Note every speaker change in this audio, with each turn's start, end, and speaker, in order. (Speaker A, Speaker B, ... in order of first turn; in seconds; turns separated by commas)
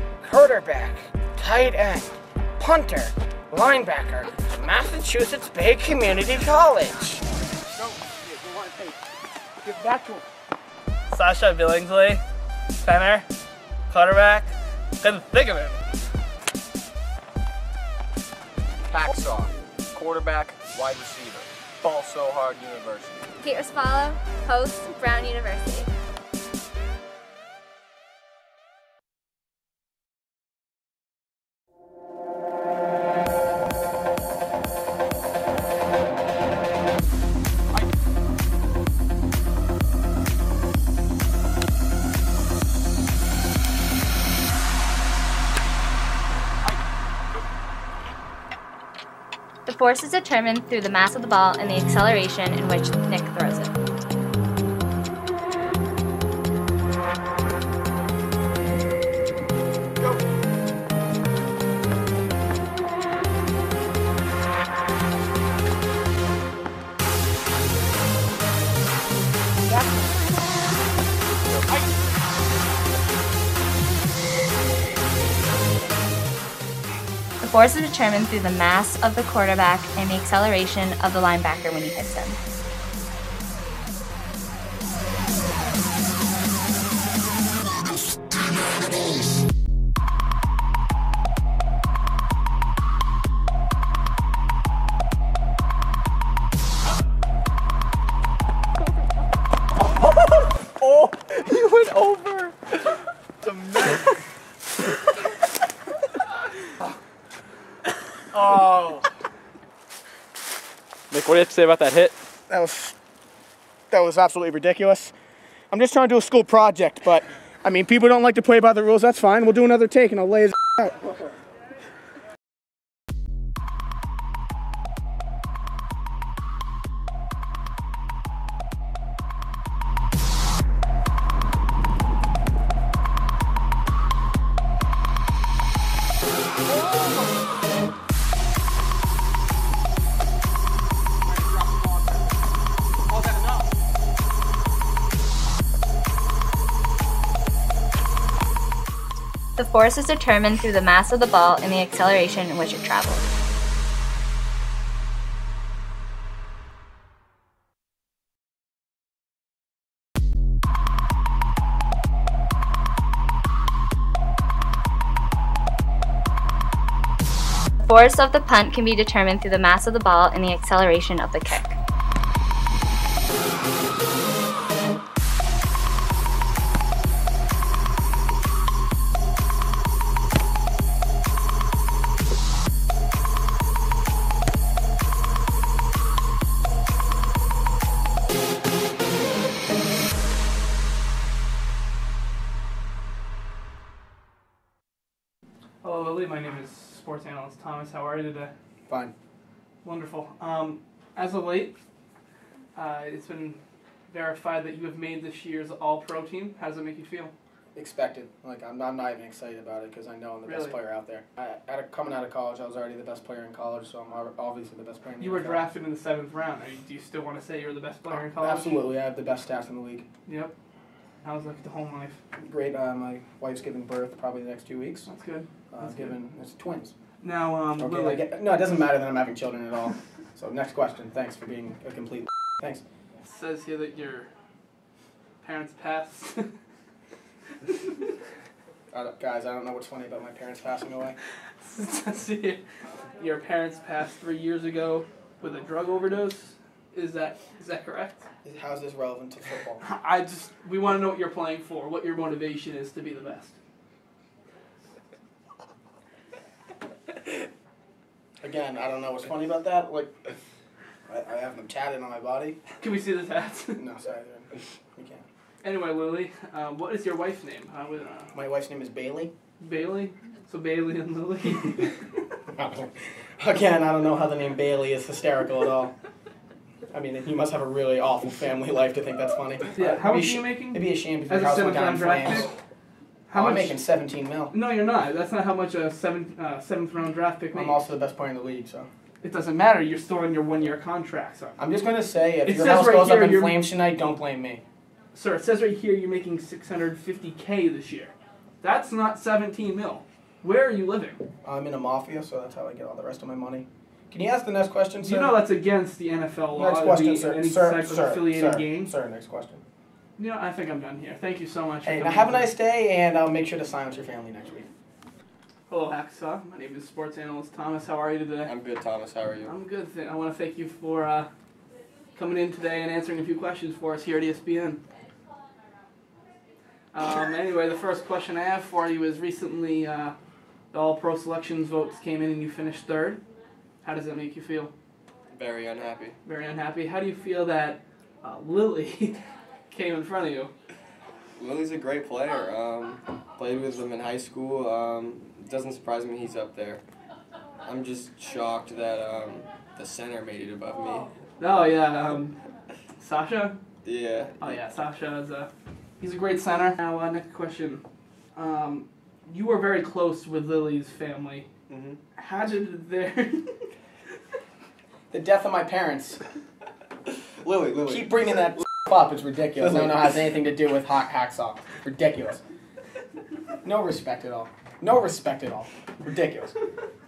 Speaker A: 0.2-7.2, Speaker A: 7.8-9.0, Speaker A: 9.6-10.2, Speaker B: 11.1-12.2, Speaker B: 12.8-13.2, Speaker B: 13.9-15.8, Speaker C: 18.9-23.3, Speaker D: 23.4-25.9, Speaker D: 49.6-53.7, Speaker A: 69.7-70.0, Speaker D: 77.4-82.4, Speaker C: 100.7-102.8, Speaker C: 103.4-104.0, Speaker A: 108.3-109.0, Speaker C: 111.1-112.1, Speaker A: 112.5-112.9, Speaker A: 113.9-115.1, Speaker A: 115.7-121.1, Speaker A: 141.3-142.3, Speaker A: 143.1-143.7, Speaker D: 149.6-153.2, Speaker D: 167.8-171.8, Speaker B: 195.8-198.5, Speaker A: 198.9-199.1, Speaker B: 199.8-201.7, Speaker B: 202.7-207.3, Speaker A: 207.7-215.7, Speaker B: 210.4-210.8, Speaker B: 215.2-218.8, Speaker A: 218.1-220.0, Speaker B: 220.2-220.5, Speaker B: 221.2-222.2, Speaker A: 222.4-225.1, Speaker B: 225.1-226.1, Speaker A: 225.7-226.9, Speaker B: 227.2-228.2, Speaker A: 227.8-232.8, Speaker B: 233.2-234.3, Speaker B: 235.4-236.5, Speaker A: 238.9-241.2, Speaker B: 241.6-242.6, Speaker B: 243.2-248.2, Speaker A: 248.4-249.8, Speaker B: 249.8-253.6, Speaker A: 258.4-260.1, Speaker A: 261.1-262.6, Speaker B: 262.8-263.8, Speaker A: 263.8-265.2, Speaker B: 265.6-268.3, Speaker A: 268.3-269.3, Speaker B: 269.6-272.0, Speaker A: 272.5-275.9, Speaker A: 276.9-282.5, Speaker B: 279.8-282.5, Speaker B: 283.3-283.8, Speaker A: 283.3-284.5, Speaker B: 284.5-287.8, Speaker A: 287.5-288.9, Speaker B: 289.2-291.6, Speaker A: 291.6-294.6, Speaker B: 292.4-293.7, Speaker B: 295.1-301.2, Speaker A: 301.4-305.4, Speaker B: 305.0-308.9, Speaker A: 306.5-309.6, Speaker B: 310.2-312.5, Speaker A: 311.8-314.7, Speaker B: 315.7-318.5, Speaker C: 318.4-319.5, Speaker B: 319.4-321.3, Speaker B: 322.1-324.8, Speaker B: 326.9-330.1, Speaker B: 330.7-333.2, Speaker B: 333.8-334.7, Speaker C: 335.3-336.2, Speaker B: 336.2-340.5, Speaker C: 341.4-346.8, Speaker C: 347.6-351.1, Speaker B: 351.4-352.4, Speaker B: 353.0-353.6, Speaker C: 353.8-354.5, Speaker B: 354.4-355.5, Speaker B: 356.0-357.8, Speaker B: 358.4-361.5, Speaker C: 361.7-362.0, Speaker B: 362.2-363.6, Speaker A: 365.1-366.2, Speaker C: 367.4-368.1, Speaker A: 367.9-372.4, Speaker A: 373.6-376.6